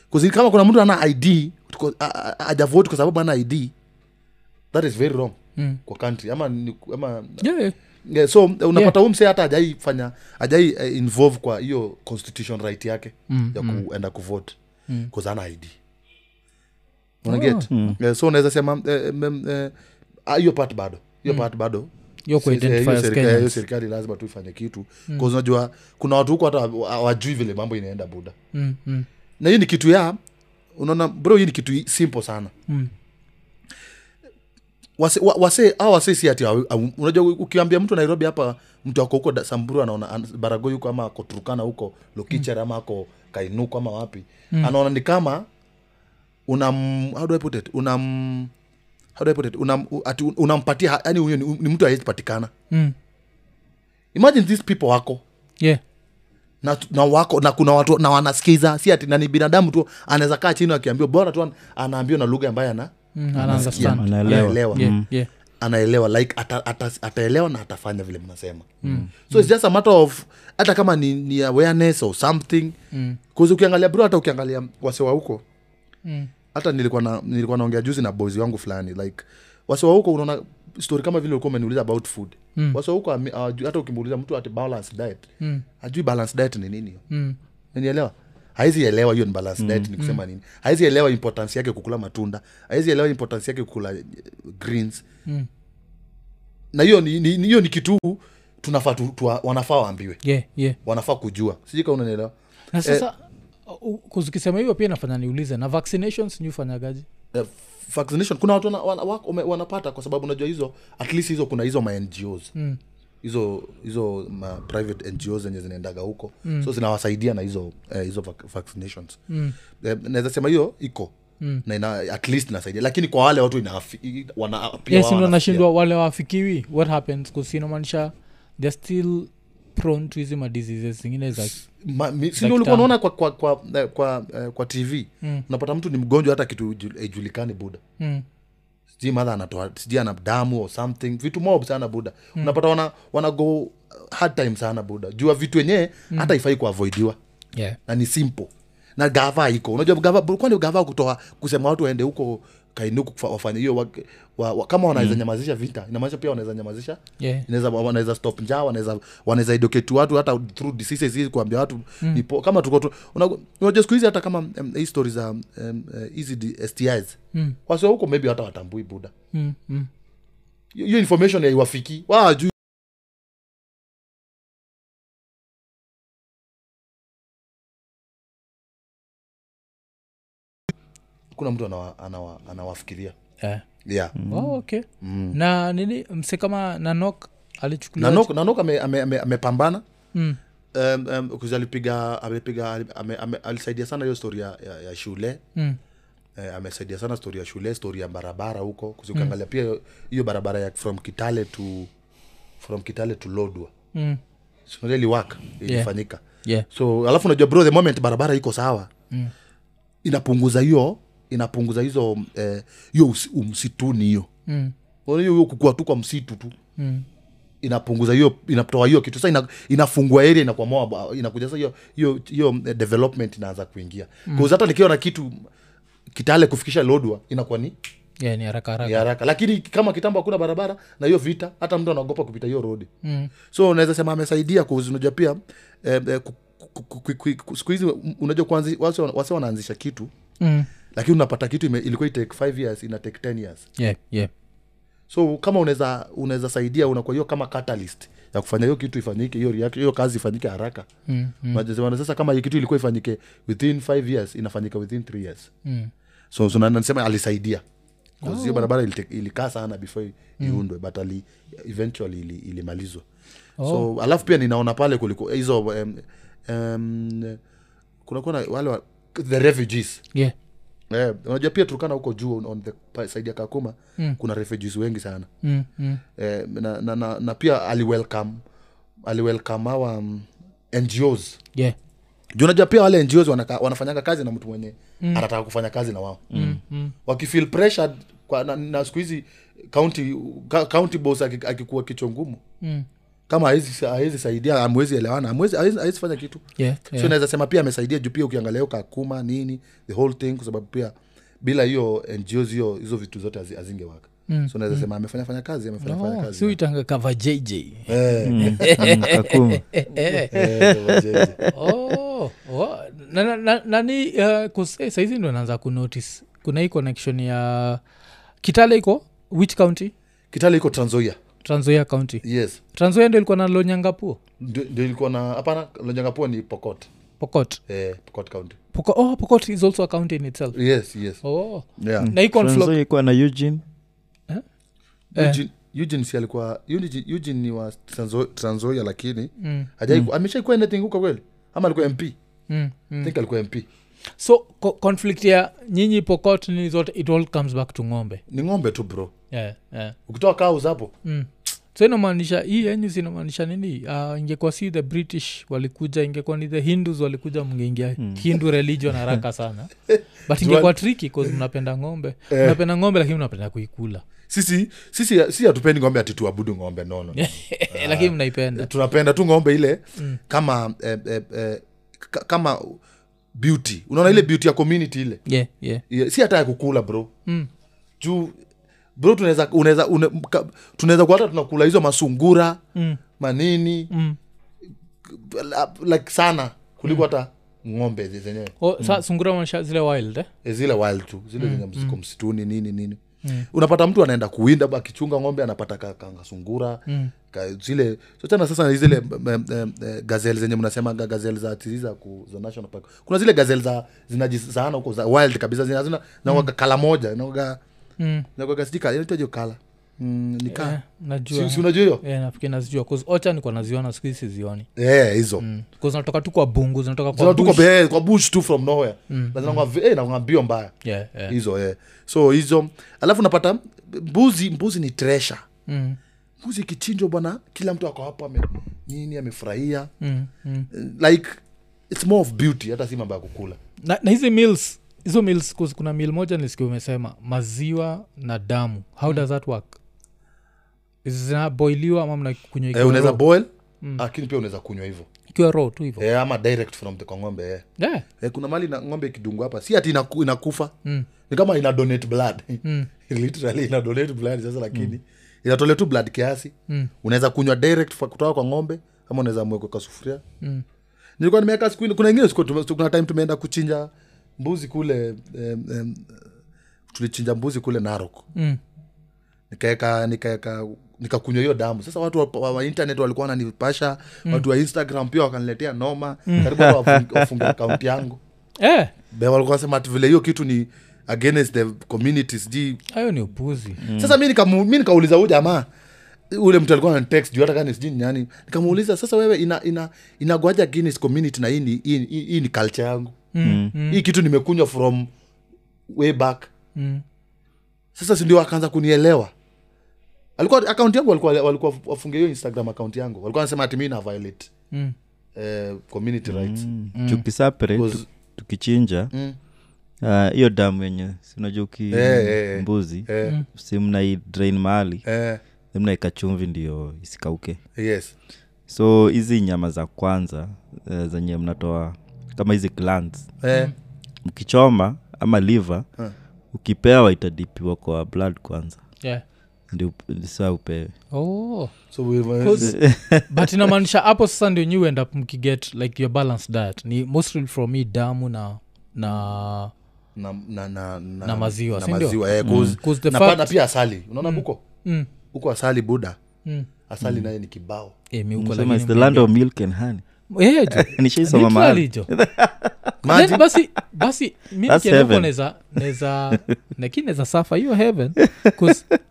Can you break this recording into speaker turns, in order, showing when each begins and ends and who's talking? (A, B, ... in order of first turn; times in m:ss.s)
0:00.1-0:03.7 A
0:04.7-0:07.4 A
0:07.4-0:07.8 B
0:08.0-0:14.6 A
0:13.3-0:13.8 B
0:15.1-0:15.8 A
0:17.2-0:19.7 A
0:17.3-0:17.7 B
0:17.7-0:18.0 C
0:20.3-0:28.4 A
0:22.2-0:23.6 B
0:28.5-0:29.1 B
0:29.4-0:30.2 A
0:30.8-0:32.5 A
0:35.0-0:45.5 A
0:46.5-0:48.5 A
0:49.2-0:52.5 A
0:54.1-0:55.2 A
0:56.6-1:04.9 A
1:03.2-1:05.3 B
1:03.4-1:05.1 C
1:05.6-1:12.8 A
1:08.8-1:09.5 B
1:12.9-1:13.2 B
1:13.3-1:15.4 A
1:16.0-1:16.3 B
1:16.5-1:25.3 A
1:25.8-1:27.0 A
1:27.1-1:27.4 B
1:27.7-1:35.0 A
1:29.6-1:29.9 C
1:36.7-1:40.2 A
1:40.2-1:40.8 B
1:40.8-1:43.0 A
1:42.7-1:47.0 B
1:47.3-1:52.5 A
1:53.2-1:59.2 A
1:56.4-1:56.7 B
1:59.3-1:59.6 B
1:59.8-2:01.1 A
2:01.6-2:05.6 A
2:04.9-2:11.6 B
2:11.5-2:17.8 A
2:12.4-2:12.9 B
2:18.0-2:18.2 B
2:19.0-2:27.2 A
2:27.9-2:49.1 A
2:37.2-2:37.5 B
2:49.3-2:49.9 B
2:50.7-2:52.5 A
3:01.3-3:03.2 A
3:03.8-3:04.1 A
3:04.2-3:04.6 C
3:04.3-3:08.3 B
3:05.0-3:05.4 A
3:08.0-3:09.8 A
3:10.7-3:15.4 A
3:16.4-3:21.9 A
3:22.6-3:23.7 A
3:23.9-3:24.2 B
3:24.7-3:28.9 A
3:30.0-3:34.3 A
3:34.5-3:34.7 B
3:35.0-3:36.5 A
3:36.8-3:37.0 B
3:37.6-3:45.5 A
3:46.1-3:47.8 A
3:48.2-3:49.0 B
3:48.8-3:52.9 A
3:53.0-3:53.3 B
3:53.5-4:00.1 A
4:00.4-4:00.7 B
4:00.9-4:03.6 A
4:03.8-4:04.3 B
4:05.1-4:10.9 A
4:11.1-4:11.6 B
4:11.5-4:15.5 A
4:15.6-4:15.9 B
4:16.3-4:17.6 A
4:18.2-4:18.7 B
4:18.2-4:23.0 A
4:23.6-4:23.9 B
4:23.6-4:27.4 A
4:28.0-4:30.0 A
4:30.9-4:35.3 A
4:35.4-4:36.0 B
4:36.2-4:38.4 A
4:39.0-4:41.4 A
4:42.4-4:46.3 A
4:46.3-4:46.6 C
4:46.3-4:47.0 B
4:47.0-4:52.4 A
4:52.6-4:52.9 B
4:53.3-5:06.6 A
4:56.6-4:57.1 B
5:04.3-5:04.8 B
5:05.8-5:10.4 B
5:07.9-5:09.1 A
5:08.2-5:11.5 C
5:10.3-5:11.4 A
5:11.5-5:17.8 B
5:18.4-5:19.9 B
5:20.3-5:21.2 A
5:21.4-5:22.2 B
5:22.2-5:22.6 A
5:22.7-5:24.2 B
5:24.4-5:26.9 A
5:27.2-5:27.6 B
5:27.7-5:28.6 A
5:28.7-5:30.6 B
5:30.5-5:31.2 A
5:31.2-5:32.8 B
5:31.8-5:32.1 A
5:32.0-5:33.6 C
5:35.1-5:42.2 A
5:39.4-5:39.7 B
5:42.5-5:43.1 B
5:43.0-5:43.7 A
5:44.2-5:48.2 B
5:48.3-5:49.1 A
5:49.3-5:50.0 B
5:50.1-5:50.9 A
5:51.0-5:59.7 B
5:58.0-5:58.2 C
5:59.9-6:00.8 A
6:00.3-6:04.0 B
6:02.3-6:02.6 A
6:04.3-6:12.8 A
6:07.2-6:08.7 B
6:13.4-6:15.2 A
6:15.3-6:15.8 B
6:15.9-6:17.1 A
6:18.0-6:18.4 A
6:19.0-6:22.6 A
6:23.2-6:23.9 A
6:23.9-6:24.2 B
6:25.0-6:28.9 A
6:28.6-6:30.3 B
6:30.4-6:33.0 A
6:31.4-6:32.0 B
6:33.5-6:47.6 A
6:48.0-6:48.3 B
6:48.4-6:50.8 A
6:50.5-6:54.7 B
6:51.3-6:52.0 A
6:54.8-6:55.4 A
6:55.4-6:57.6 B
6:57.1-7:00.7 A
6:59.1-6:59.6 B
7:00.8-7:01.4 B
7:01.3-7:05.4 A
7:05.7-7:06.0 B
7:06.4-7:09.9 A
7:10.0-7:10.7 B
7:10.7-7:11.4 A
7:11.9-7:13.6 A
7:13.8-7:19.8 B
7:21.0-7:23.2 B
7:22.7-7:25.1 A
7:25.3-7:26.0 B
7:26.0-7:27.6 A
7:27.8-7:28.0 B
7:28.2-7:30.7 A
7:31.3-7:40.2 A
7:32.6-7:32.9 B
7:41.2-7:46.2 A
7:46.9-7:48.2 A
7:49.5-7:58.2 A
7:56.3-7:56.5 B
7:56.4-7:57.6 C
7:58.6-7:58.9 B
7:59.1-8:02.8 A
8:02.9-8:03.8 B
8:03.8-8:04.2 C
8:03.9-8:05.7 A
8:06.3-8:13.2 A
8:13.3-8:14.0 B
8:13.4-8:13.7 C
8:13.9-8:15.1 A
8:15.9-8:16.5 A
8:16.8-8:17.0 B
8:18.0-8:19.3 A
8:20.4-8:24.5 A
8:25.4-8:26.7 A
8:26.3-8:29.1 C
8:27.0-8:27.2 B
8:27.7-8:28.0 A
8:29.1-8:29.4 A
8:30.0-8:35.0 C
8:31.9-8:33.4 A
8:35.0-8:35.4 A
8:35.7-8:37.6 C
8:37.8-8:38.2 A
8:38.7-8:43.3 C
8:43.4-8:43.7 A
8:44.2-8:45.8 C
8:46.5-8:48.8 C
8:49.7-8:50.9 C
8:51.1-8:51.7 B
8:51.9-8:52.8 A
8:52.4-8:59.7 B
8:52.6-8:53.5 C
9:00.2-9:04.6 A
9:01.2-9:03.5 B
9:02.4-9:02.8 C
9:04.2-9:05.1 B
9:05.3-9:06.2 A
9:06.9-9:07.9 A
9:07.0-9:07.3 C
9:08.1-9:09.3 B
9:08.4-9:10.0 C
9:10.3-9:12.1 B
9:10.7-9:13.5 C
9:13.0-9:13.4 A
9:13.1-9:18.8 B
9:14.7-9:15.3 C
9:18.2-9:18.8 C